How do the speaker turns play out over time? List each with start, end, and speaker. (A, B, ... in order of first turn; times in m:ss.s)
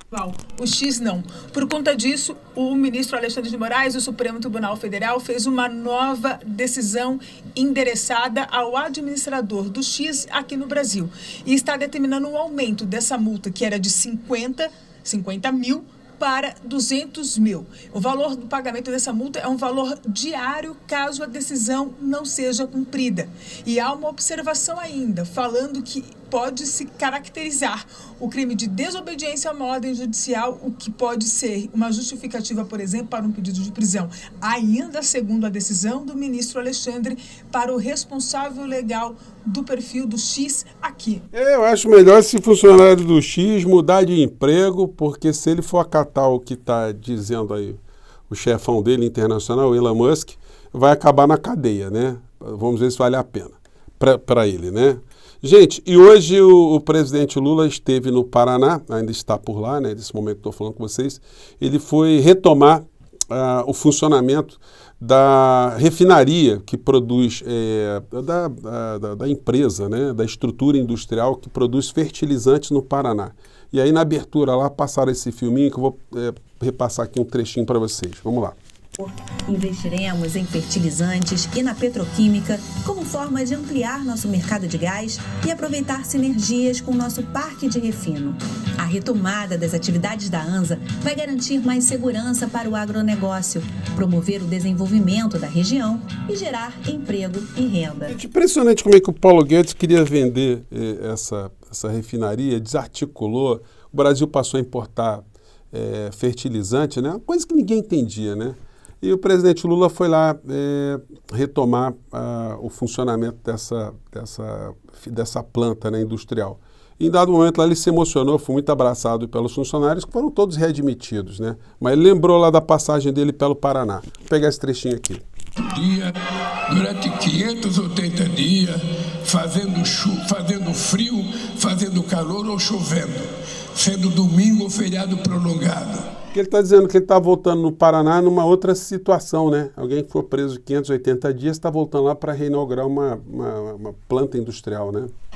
0:00.1-0:41.2 A
0:41.3-1:18.6 B
1:19.0-1:38.1 C
1:38.1-2:05.2 B
2:05.6-2:06.1 D
2:06.7-2:16.1 D
2:16.3-2:25.1 B